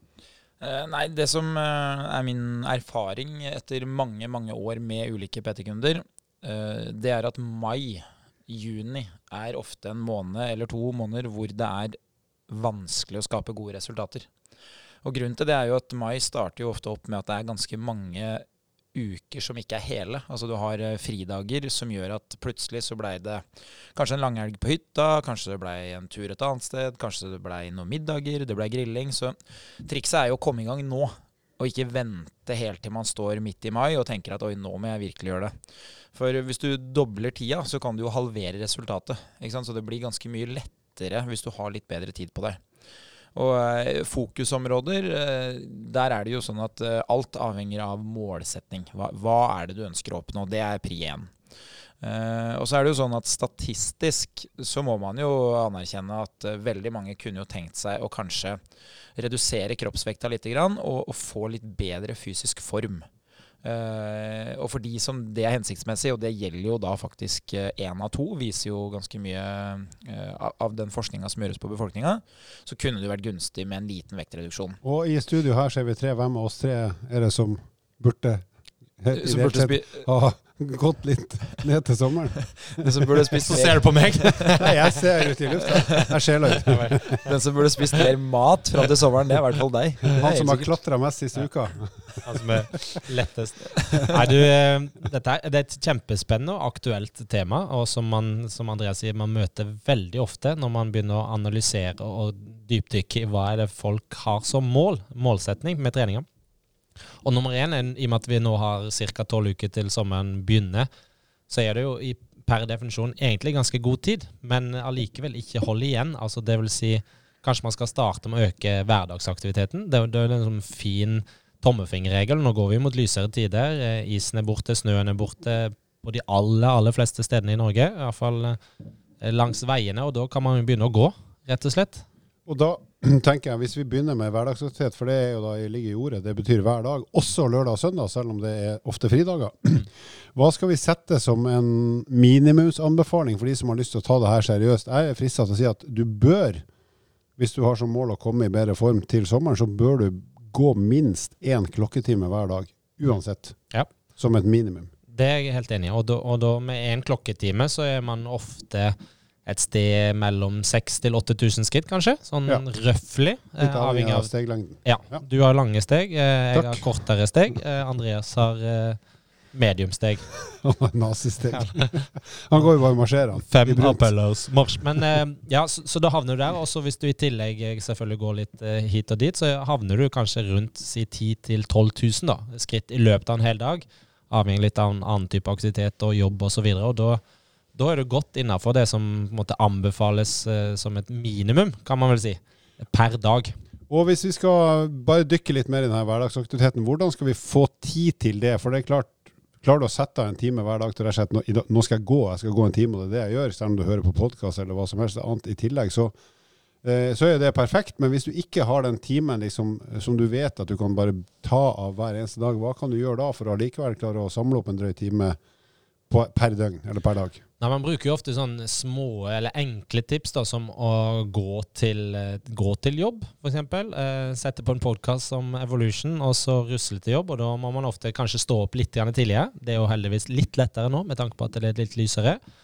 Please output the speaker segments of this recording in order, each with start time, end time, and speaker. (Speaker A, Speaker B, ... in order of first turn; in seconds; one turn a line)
Speaker A: 0.6-12.0
Speaker A: 12.5-14.3
Speaker A: 15.0-23.4
Speaker A: 23.9-35.5
Speaker A: 36.1-42.6
Speaker A: 43.4-51.3
Speaker A: 52.0-58.6
Speaker A: 59.2-63.1
Speaker A: 63.6-74.8
Speaker B: 74.8-78.5
Speaker B: 79.0-83.6
Speaker A: 79.1-80.0
Speaker A: 82.6-84.7
Speaker C: 83.4-84.9
Speaker B: 84.5-87.2
Speaker A: 85.6-86.1
Speaker C: 86.5-87.3
Speaker A: 87.2-90.7
Speaker B: 90.2-92.5
Speaker C: 92.2-106.3
Speaker C: 107.2-110.9
Speaker C: 111.5-128.6
Speaker C: 129.2-132.0
Speaker B: 132.5-146.6
Speaker B: 147.4-153.6
Speaker B: 154.2-154.9
Speaker C: 155.1-164.3
Speaker B: 163.6-165.2
Speaker C: 164.8-169.0
Speaker B: 166.6-166.8
Speaker C: 169.5-170.3
Speaker B: 170.5-174.1
Speaker C: 171.6-171.9
Speaker C: 173.5-187.2
Speaker C: 187.8-193.5
Speaker B: 193.9-206.2
Speaker B: 206.8-215.4
Speaker B: 216.1-217.4
Speaker C: 217.6-232.4